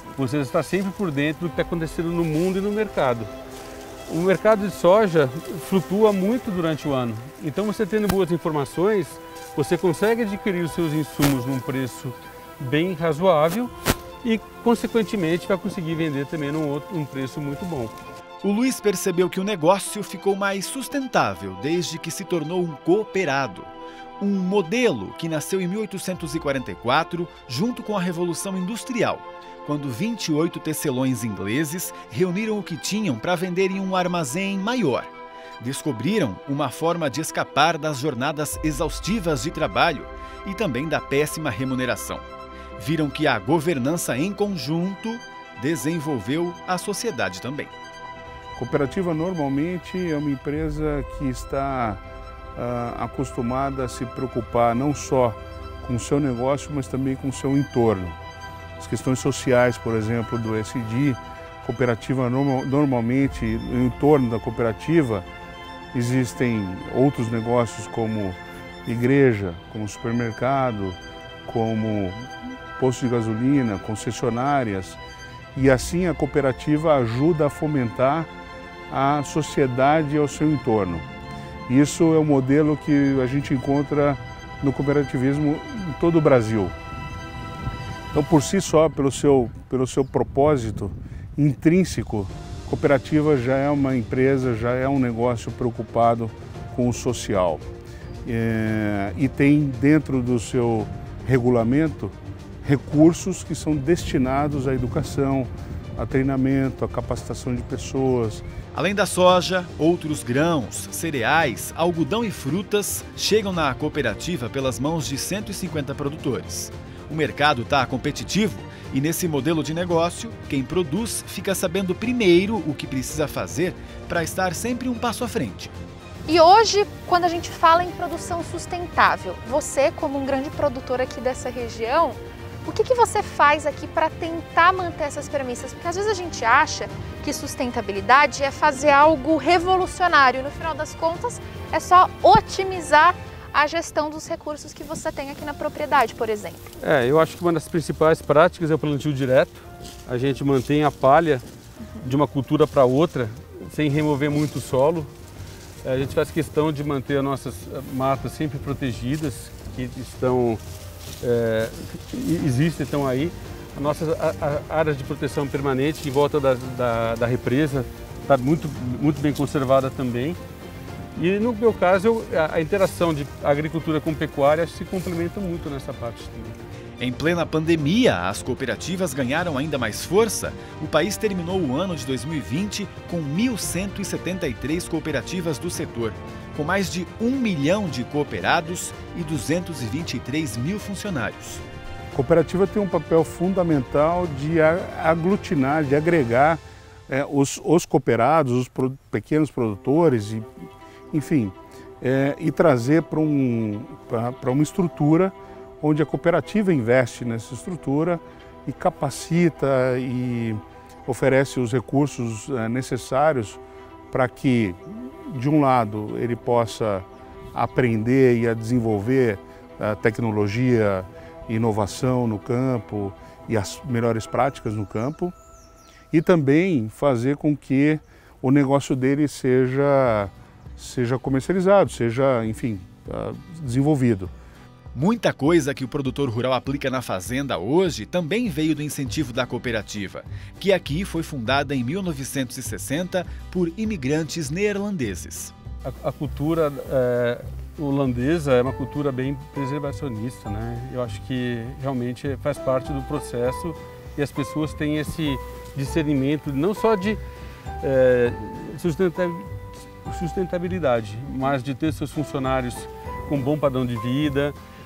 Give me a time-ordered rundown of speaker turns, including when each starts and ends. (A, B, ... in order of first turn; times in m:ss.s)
0:00.2-0:03.3 A
0:04.1-0:13.7 A
0:14.2-0:18.0 A
0:18.4-0:47.7 B
0:48.6-0:52.0 C
0:52.6-0:58.2 C
0:58.8-1:05.3 C
1:05.9-1:15.0 C
1:15.6-1:18.3 C
1:18.9-1:21.1 C
1:21.7-1:26.8 C
1:28.1-1:37.6 C
1:38.2-1:48.5 C
1:48.7-2:05.7 B
2:06.3-2:26.7 D
2:26.8-2:31.4 A
2:32.0-2:35.1 A
2:35.8-2:40.6 A
2:41.2-2:50.4 A
2:51.2-2:56.6 A
2:57.0-3:11.6 B
3:12.1-3:20.5 C
3:21.1-3:45.3 C
3:46.1-3:54.3 C
3:54.9-4:05.5 B
4:05.8-4:17.2 A
4:17.8-4:19.5 A
4:20.0-4:24.6 A